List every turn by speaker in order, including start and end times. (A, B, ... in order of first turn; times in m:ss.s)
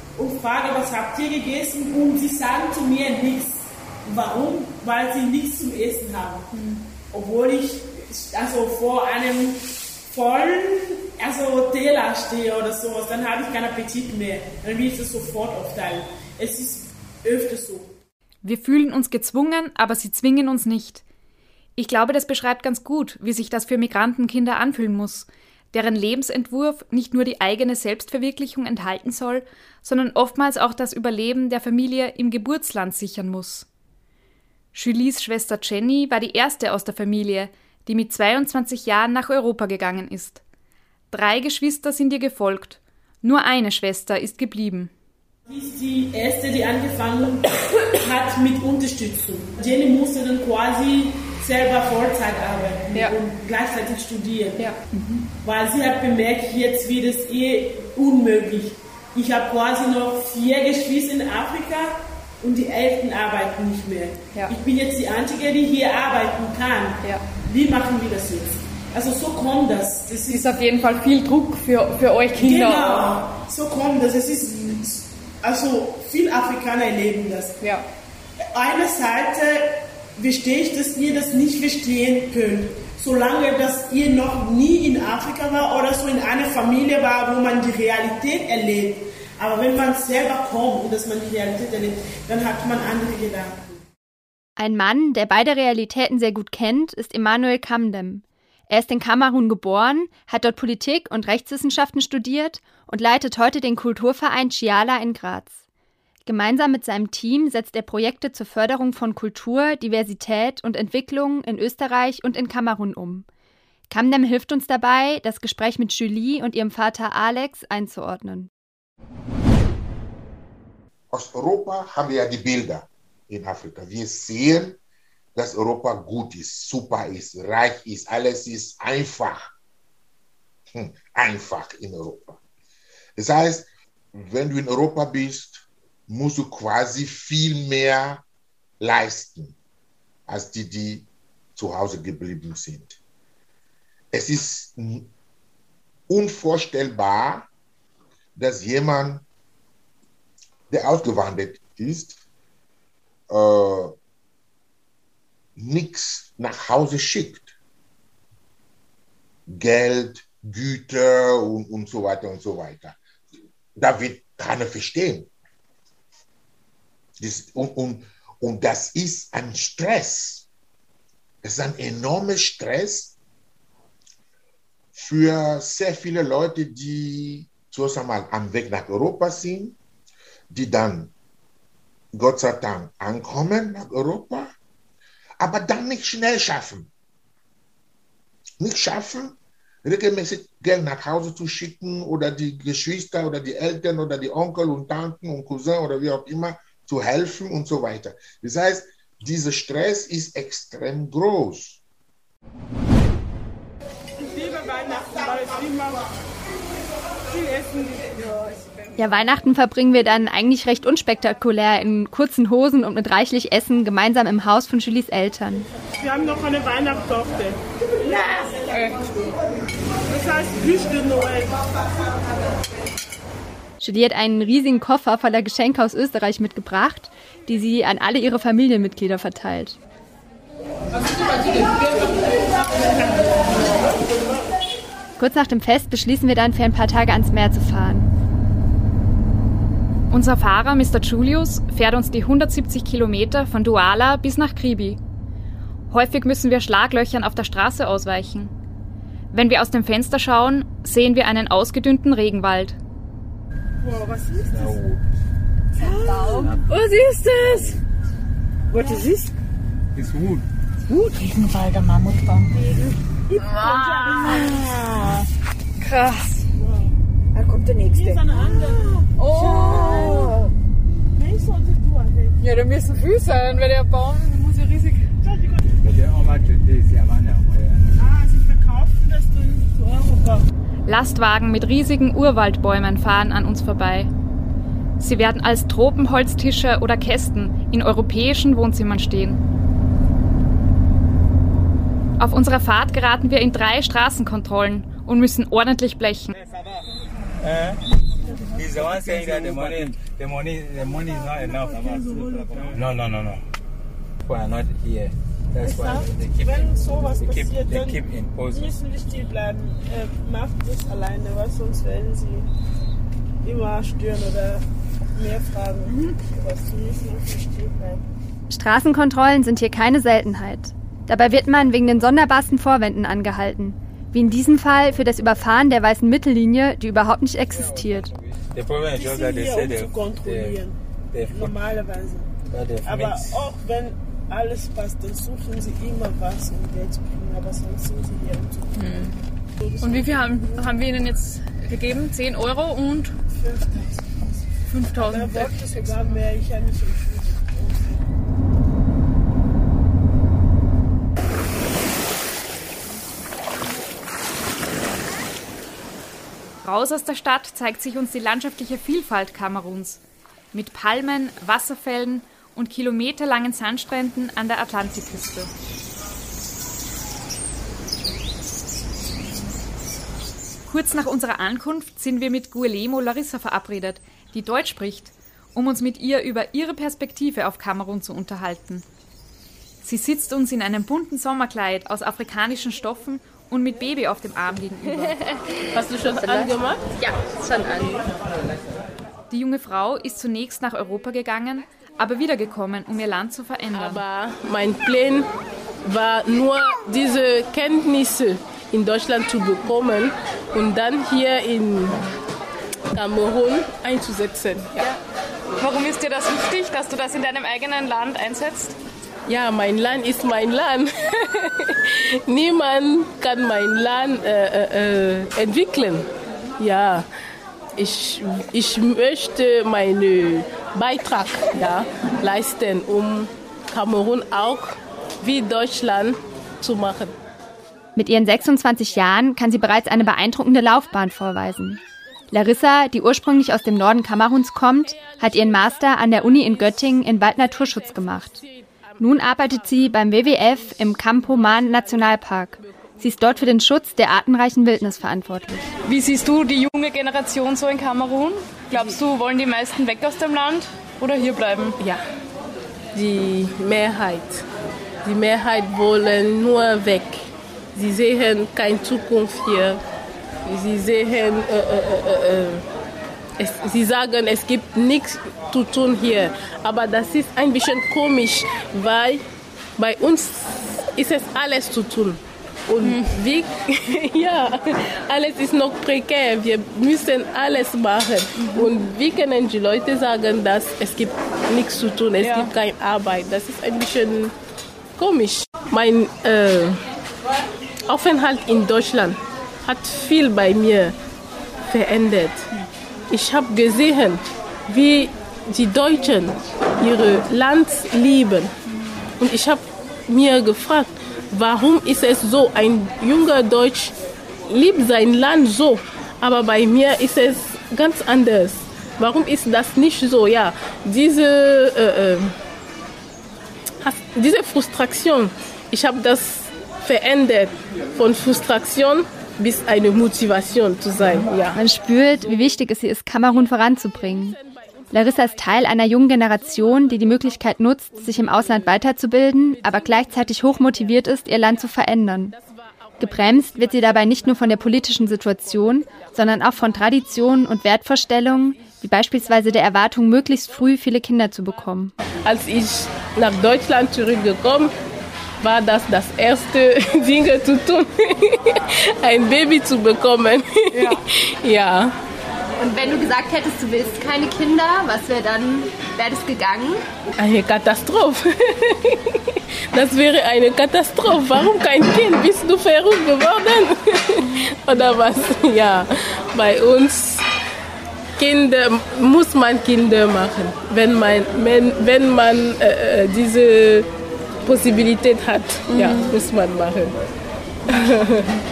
0:00.2-0:06.5 A
0:06.5-0:06.8 B
0:07.1-0:17.9 A
0:18.4-0:21.0 C
0:21.8-0:33.7 C
0:34.7-0:40.4 C
0:41.1-0:44.9 C
0:45.5-0:54.7 A
0:54.6-0:55.2 B
0:55.4-1:10.6 A
1:10.3-1:13.1 B
1:12.4-1:17.6 A
1:18.5-1:33.8 A
1:34.6-1:45.6 D
1:46.3-1:53.3 D
1:53.9-1:58.5 D
2:01.1-2:04.8 E
2:05.4-2:09.5 E
2:10.7-2:12.4 E
2:13.2-2:18.2 E
2:18.8-2:19.5 E
2:20.3-2:23.0 E
2:24.1-2:25.1 E
2:26.1-2:27.5 E
2:28.4-2:29.2 E
2:30.7-2:32.2 E
2:33.3-2:33.9 E
2:35.6-2:37.5 E
2:39.5-2:43.0 E
2:43.8-2:45.3 E
2:47.2-2:50.5 E
2:51.4-2:53.1 E
2:55.0-2:59.8 E
3:00.5-3:01.1 E
3:02.1-3:04.5 E
3:05.4-3:06.9 E
3:08.6-3:21.8 E
3:24.2-3:26.1 A
3:27.3-3:28.4 A
3:29.0-3:35.7 D
3:36.0-3:38.6 A
3:38.7-3:39.0 B
3:40.1-3:41.6 A
3:43.8-3:49.8 D
3:55.2-3:58.1 D
4:00.1-4:05.0 C
4:05.9-4:08.5 C
4:09.3-4:12.8 C
4:13.8-4:14.8 A
4:14.5-4:15.0 F
4:15.8-4:17.4 G
4:18.7-4:19.3 G
4:18.8-4:19.0 A
4:20.0-4:20.5 F
4:20.9-4:21.6 G
4:23.3-4:24.5 A
4:23.7-4:25.2 G
4:25.8-4:26.4 B
4:26.6-4:26.9 A
4:27.3-4:30.4 G
4:27.9-4:29.0 A
4:29.3-4:29.7 B
4:31.2-4:32.4 A
4:32.4-4:35.0 B
4:35.2-4:35.6 A
4:35.8-4:38.0 F
4:38.0-4:40.5 A
4:40.9-4:44.1 C
4:45.0-4:49.4 C
4:52.2-4:56.3 C
4:57.4-4:57.8 F
4:58.6-5:03.4 F
5:01.4-5:02.4 A
5:04.2-5:08.8 F
5:05.6-5:12.5 A
5:13.4-5:14.6 A
5:15.2-5:18.0 A
5:18.5-5:28.1 D
5:27.5-5:30.6 F
5:28.9-5:30.8 A
5:31.1-5:31.6 F
5:31.3-5:32.3 A
5:32.5-5:33.4 F
5:32.8-5:39.1 A
5:38.8-5:39.2 B
5:39.6-5:40.6 A
5:39.8-5:43.2 B
5:43.3-5:43.9 A
5:44.7-5:46.2 B
5:45.0-5:48.0 A
5:56.6-6:00.0 C
6:00.5-6:05.5 C
6:10.7-6:18.8 C
6:19.8-6:25.2 C
6:25.7-6:26.8 H
6:26.2-6:28.1 I
6:29.3-6:34.0 C
6:33.7-6:35.3 H
6:35.8-6:42.0 H
6:42.9-6:44.7 H
6:45.6-6:48.8 B
6:49.3-6:56.1 H
6:56.6-6:57.1 H
6:57.8-7:07.1 H
7:08.0-7:18.4 D
7:19.0-7:25.7 D
7:25.8-7:31.8 B
7:32.9-7:34.4 H
7:35.0-7:39.8 H
7:40.5-7:42.6 H
7:43.4-7:49.2 H
7:49.8-8:04.3 H
7:58.4-7:58.7 B
8:02.2-8:02.5 B
8:05.0-8:06.8 H
8:07.9-8:11.0 H
8:11.7-8:12.4 H
8:13.1-8:18.5 H
8:19.2-8:23.9 H
8:24.5-8:32.4 H
8:33.8-8:41.6 H
8:41.6-8:44.4 D
8:44.9-8:52.4 D
8:53.0-9:01.9 D
8:53.0-8:53.7 H
9:02.2-9:04.7 H
9:05.4-9:11.9 H
9:12.6-9:16.8 I
9:17.2-9:27.2 H
9:28.2-9:33.9 H
9:34.4-9:37.0 H
9:35.8-9:36.1 B
9:37.7-9:38.3 H